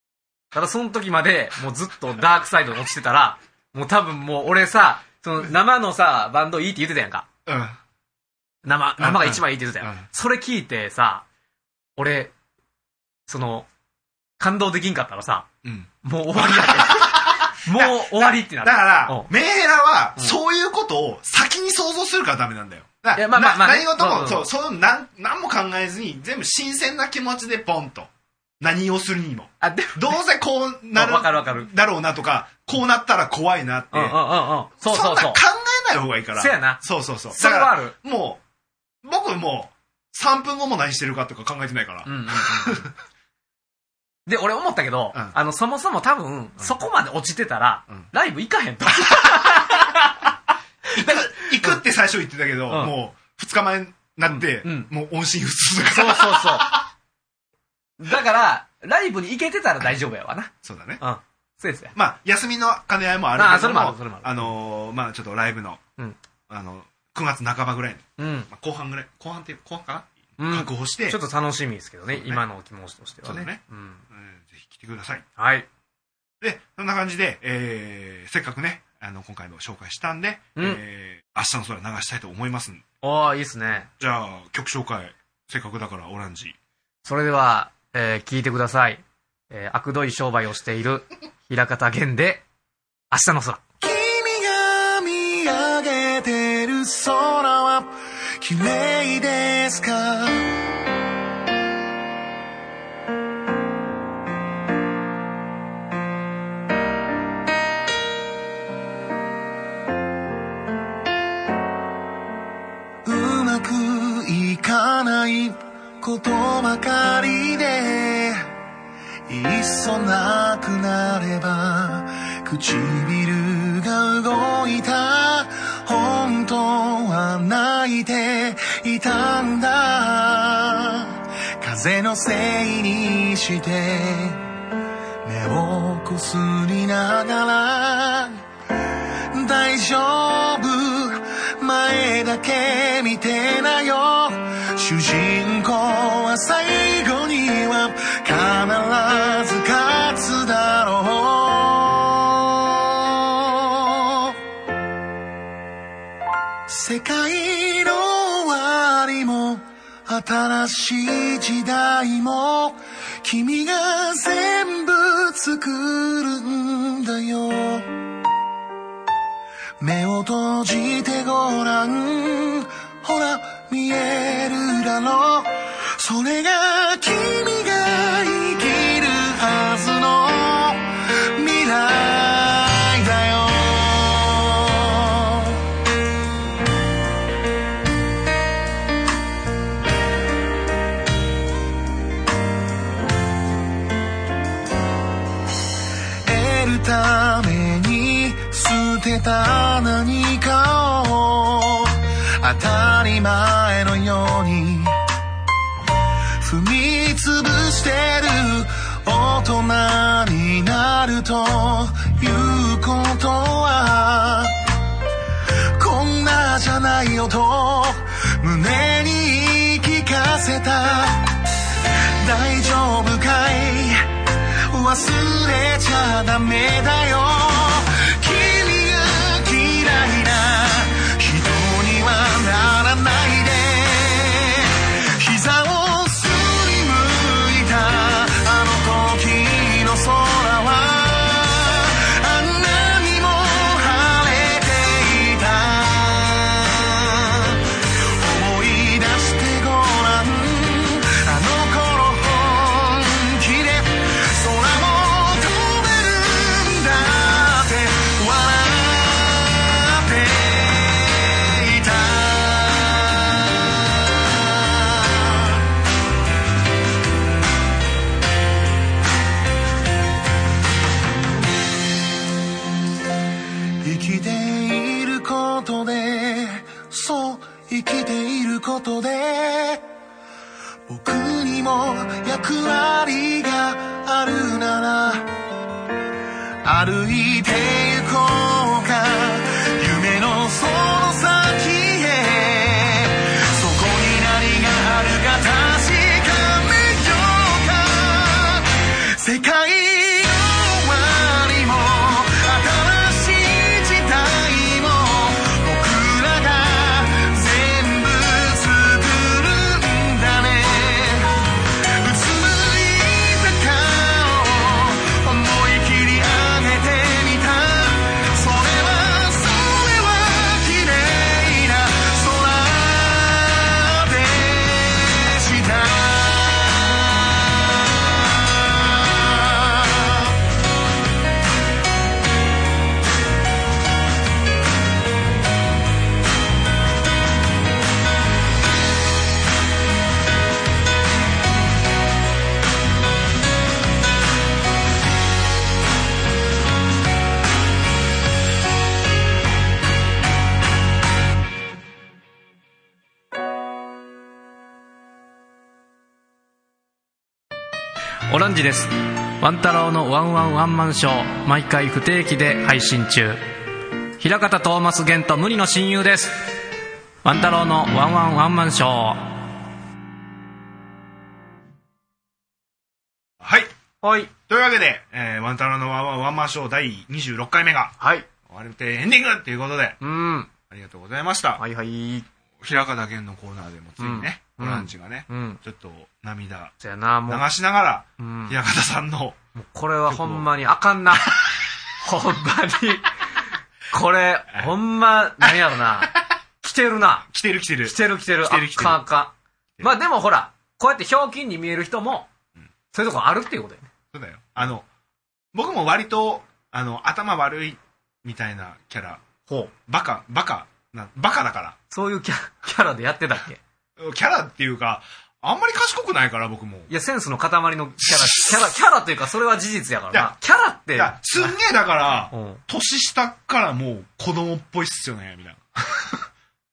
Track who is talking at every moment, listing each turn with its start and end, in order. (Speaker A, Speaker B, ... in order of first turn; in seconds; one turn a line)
Speaker A: 0.5-7.3
Speaker B: 7.5-7.8
Speaker A: 8.6-11.2
Speaker B: 9.0-10.1
Speaker A: 12.0-12.3
Speaker A: 13.3-13.7
Speaker A: 14.4-15.5
Speaker B: 15.6-34.2
Speaker A: 16.0-19.3
Speaker A: 23.1-24.5
Speaker A: 29.6-30.2
Speaker A: 30.9-31.7
Speaker A: 33.9-35.4
Speaker B: 34.8-38.4
Speaker A: 36.4-37.9
Speaker B: 39.0-42.9
Speaker A: 42.0-42.9
Speaker A: 44.2-50.2
Speaker A: 50.9-51.8
Speaker B: 50.9-56.9
Speaker A: 52.7-52.9
Speaker A: 54.3-54.9
Speaker A: 55.9-56.8
Speaker A: 58.0-61.9
Speaker B: 60.6-61.0
Speaker B: 61.9-65.8
Speaker A: 63.4-64.5
Speaker B: 66.5-71.2
Speaker A: 68.2-68.5
Speaker A: 70.4-74.0
Speaker B: 72.1-72.4
Speaker B: 73.2-75.2
Speaker A: 75.4-75.7
Speaker B: 76.4-82.8
Speaker A: 83.0-83.9
Speaker B: 84.0-86.5
Speaker A: 87.0-92.4
Speaker A: 93.1-93.6
Speaker C: 93.8-100.5
Speaker C: 113.0-118.5
Speaker C: 119.3-134.4
Speaker C: 135.2-138.4
Speaker C: 139.3-154.4
Speaker C: 156.7-167.9
Speaker C: 169.8-185.6
Speaker C: 196.2-205.0
Speaker C: 206.4-214.6
Speaker C: 215.8-265.6
Speaker C: 273.8-279.9
Speaker C: 280.9-285.3
Speaker C: 286.6-330.3
Speaker A: 358.3-363.4
Speaker A: 364.2-366.6
Speaker A: 367.2-369.5
Speaker B: 373.4-373.7
Speaker A: 374.0-374.3
Speaker B: 374.5-380.0
Speaker A: 378.0-378.3
Speaker A: 380.0-380.5
Speaker B: 380.7-381.6
Speaker A: 381.6-382.3
Speaker B: 382.6-386.7
Speaker A: 384.0-385.6
Speaker A: 386.8-387.4
Speaker B: 387.3-389.4
Speaker A: 388.2-388.6
Speaker A: 389.6-391.4
Speaker B: 390.1-390.5
Speaker B: 391.1-391.5
Speaker A: 392.0-393.1
Speaker A: 393.9-397.2
Speaker B: 397.3-399.0
Speaker A: 397.8-402.3
Speaker A: 402.9-403.9
Speaker B: 404.1-404.9
Speaker B: 405.5-409.2
Speaker A: 409.4-409.7
Speaker B: 409.9-411.8
Speaker A: 411.9-413.6
Speaker B: 414.0-416.9
Speaker A: 416.9-421.6
Speaker B: 418.2-418.5
Speaker B: 420.9-426.2
Speaker A: 422.3-422.6